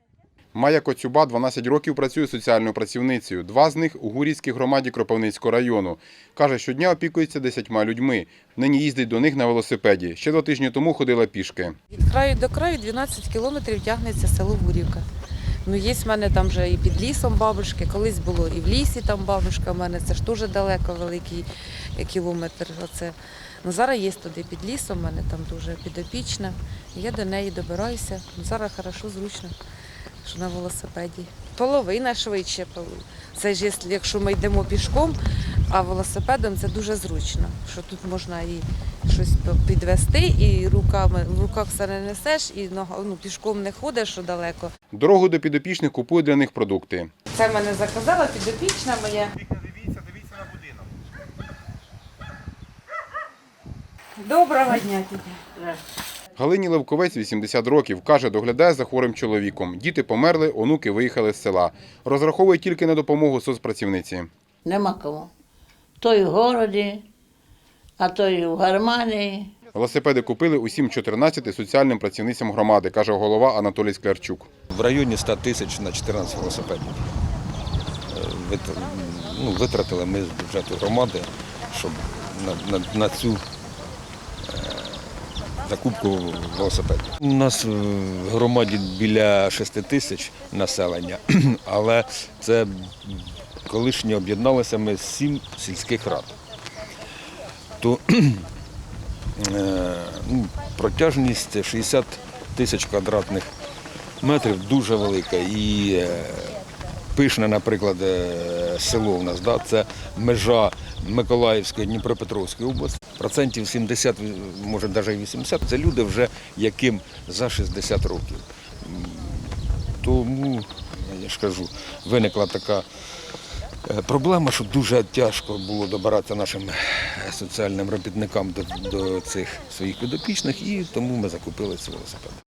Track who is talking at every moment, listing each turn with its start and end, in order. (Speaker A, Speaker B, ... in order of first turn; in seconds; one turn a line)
Speaker A: 0.5-11.8
Speaker B: 11.9-15.1
Speaker B: 15.6-29.5
Speaker B: 30.2-35.2
Speaker B: 35.7-44.7
Speaker A: 44.9-47.1
Speaker B: 47.3-49.3
Speaker B: 54.2-55.4
Speaker A: 56.4-64.3
Speaker C: 64.7-65.3
Speaker C: 66.0-67.1
Speaker C: 68.0-69.5
Speaker A: 69.7-74.5
Speaker D: 74.7-77.0
Speaker D: 78.1-83.5
Speaker D: 84.4-96.3
Speaker D: 97.8-98.5
Speaker D: 99.4-103.5
Speaker D: 104.2-106.6
Speaker D: 107.2-122.9
Speaker D: 123.9-132.4